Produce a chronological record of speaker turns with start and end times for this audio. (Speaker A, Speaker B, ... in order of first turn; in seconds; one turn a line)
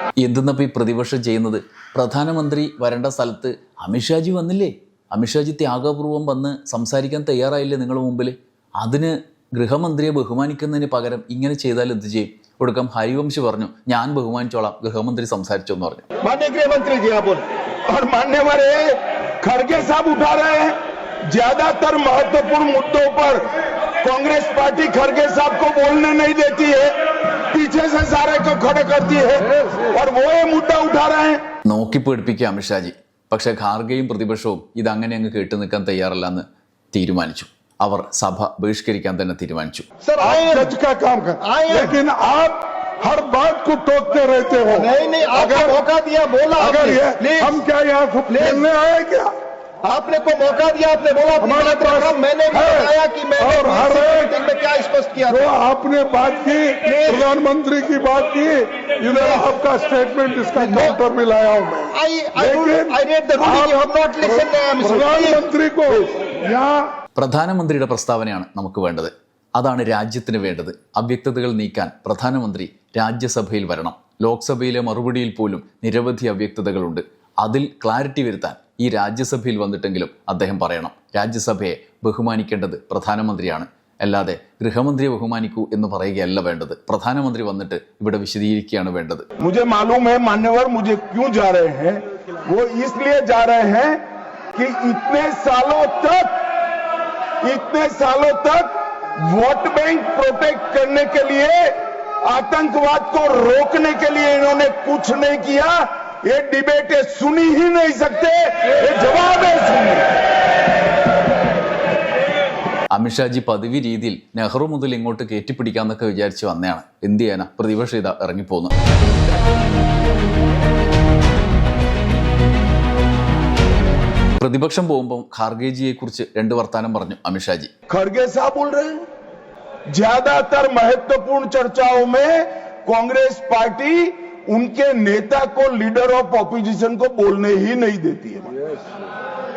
Speaker A: 0.2-16.0
Speaker B: 16.2-17.5
Speaker C: 17.9-20.8
Speaker C: 21.3-23.5
Speaker C: 24.0-31.4
Speaker A: 31.7-39.9
Speaker B: 40.0-40.7
Speaker D: 40.2-45.8
Speaker B: 41.4-42.0
Speaker B: 44.7-47.6
Speaker D: 46.6-49.3
Speaker B: 48.3-48.7
Speaker B: 49.8-55.4
Speaker D: 51.4-54.3
Speaker D: 55.2-66.9
Speaker B: 56.8-57.3
Speaker B: 59.1-59.5
Speaker B: 60.6-61.0
Speaker B: 61.9-65.4
Speaker A: 67.2-89.3
Speaker C: 89.4-94.0
Speaker C: 94.5-96.3
Speaker C: 97.4-110.1
Speaker A: 112.9-118.7
Speaker A: 124.4-127.7
Speaker C: 127.9-129.0
Speaker C: 129.9-138.8